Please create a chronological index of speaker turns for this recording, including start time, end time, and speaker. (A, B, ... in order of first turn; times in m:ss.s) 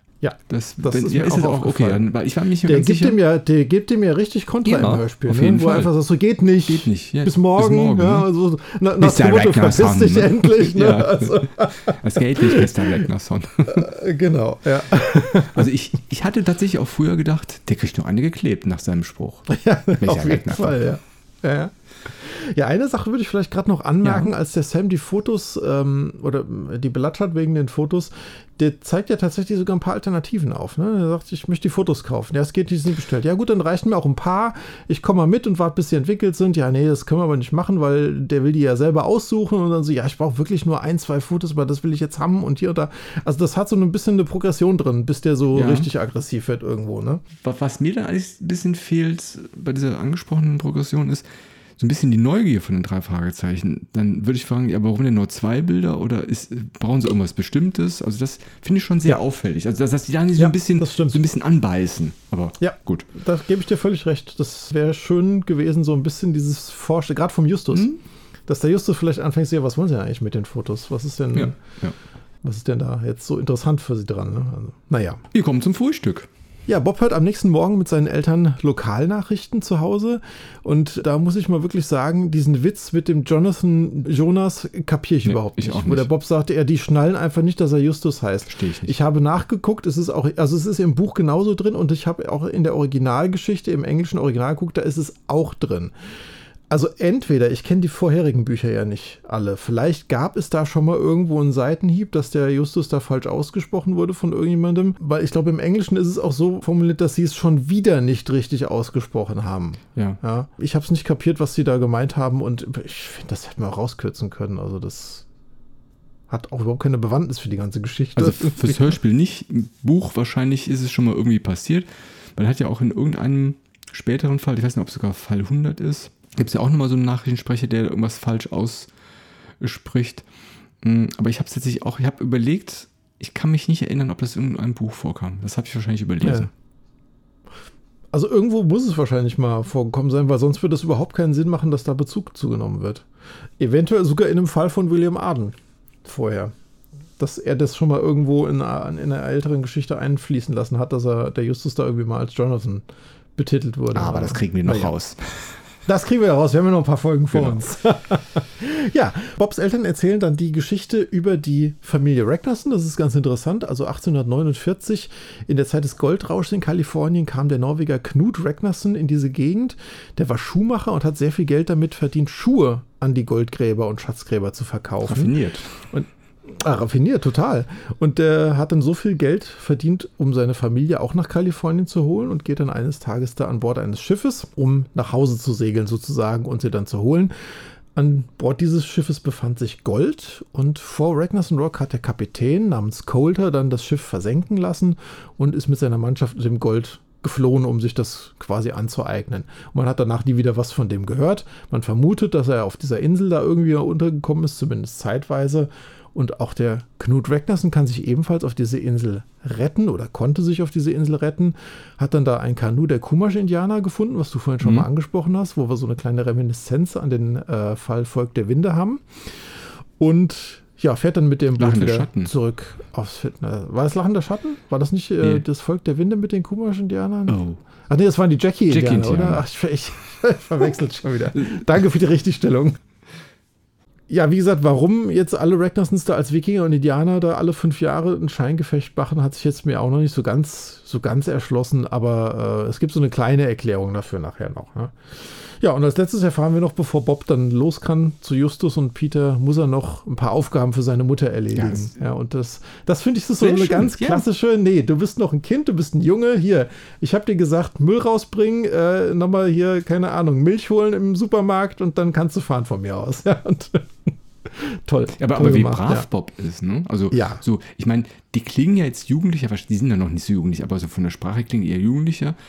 0:00.2-0:02.0 A
0:00.5-0:03.2 B
0:02.6-0:12.9 A
0:04.6-0:05.9 B
0:06.6-0:08.3 B
0:09.0-0:13.9 B
0:13.7-0:15.7 A
0:15.4-0:20.8 B
0:19.5-0:47.2 A
0:24.0-0:24.3 B
0:45.5-0:45.9 B
0:47.4-1:03.0 B
1:00.3-1:01.2 A
1:02.6-1:07.9 A
1:07.7-1:08.0 B
1:08.5-1:11.6 A
1:11.3-1:12.0 B
1:12.4-1:15.2 A
1:15.3-1:16.3 B
1:16.7-1:35.9 A
1:25.2-1:26.1 B
1:28.5-1:29.0 B
1:36.7-1:55.2 A
1:56.3-1:58.9 A
1:58.2-2:08.9 B
2:09.6-2:10.2 B
2:10.8-2:16.5 B
2:16.2-2:16.5 A
2:18.1-2:23.0 A
2:23.6-2:26.5 A
2:27.2-2:32.8 A
2:33.4-2:34.9 A
2:33.9-2:35.6 B
2:35.8-3:52.8 A
2:37.3-2:37.6 B
2:55.0-2:55.7 B
3:34.6-3:34.9 B
3:41.6-3:42.3 B
3:47.3-3:47.6 B
3:48.7-3:49.4 B
3:51.3-3:51.6 B
3:54.1-4:26.0 A
4:11.5-4:11.9 B
4:13.4-4:14.2 B
4:25.2-4:32.4 B
4:27.1-4:27.4 A